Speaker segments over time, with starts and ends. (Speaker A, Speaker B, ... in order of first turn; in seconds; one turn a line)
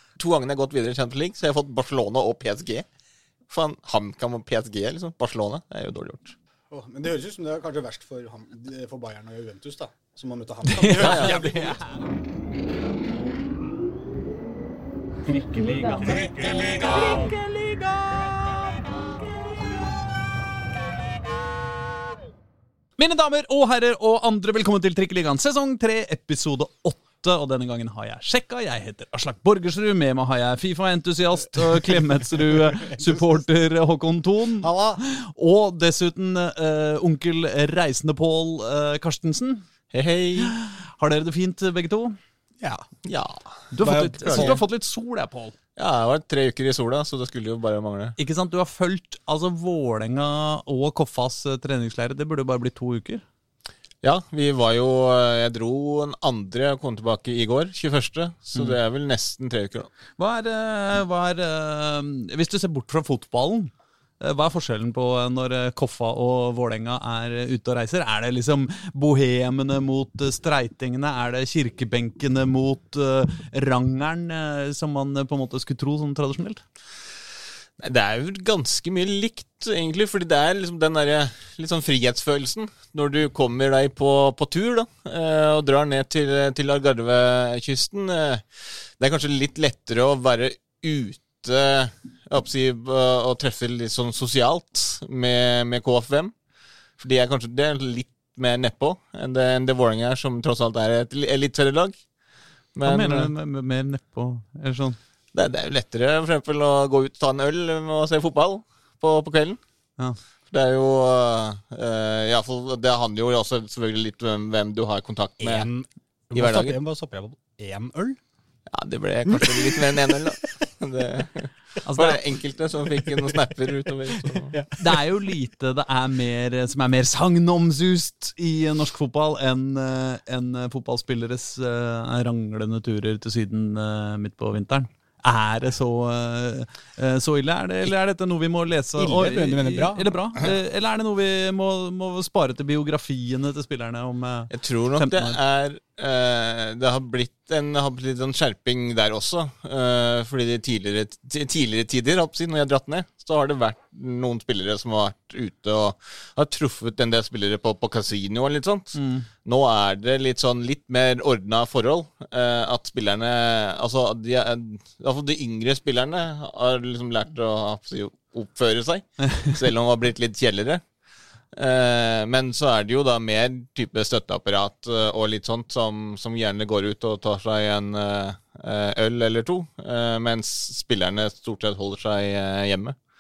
Speaker A: 0.2-2.9
Speaker A: 3.5-6.4
Speaker B: 6.7-11.8
Speaker C: 10.7-12.0
Speaker A: 11.0-11.4
Speaker C: 15.3-18.7
Speaker C: 23.0-39.7
Speaker B: 32.8-33.2
Speaker B: 34.6-35.0
Speaker A: 39.9-40.5
Speaker C: 40.4-42.2
Speaker A: 43.0-43.7
Speaker C: 43.7-45.5
Speaker B: 43.8-44.6
Speaker A: 44.2-44.6
Speaker A: 45.8-48.2
Speaker C: 48.2-53.2
Speaker A: 54.0-59.9
Speaker C: 60.2-76.6
Speaker A: 77.8-96.3
Speaker A: 97.0-102.0
Speaker A: 102.7-103.3
Speaker C: 102.8-105.0
Speaker A: 105.3-109.6
Speaker A: 110.5-115.7
Speaker B: 115.4-118.2
Speaker A: 116.3-116.8
Speaker A: 118.7-124.5
Speaker B: 119.3-120.2
Speaker C: 121.8-122.2
Speaker B: 124.5-124.8
Speaker C: 124.8-145.4
Speaker B: 139.0-140.1
Speaker A: 144.5-170.8
Speaker C: 158.9-159.3
Speaker A: 171.5-182.9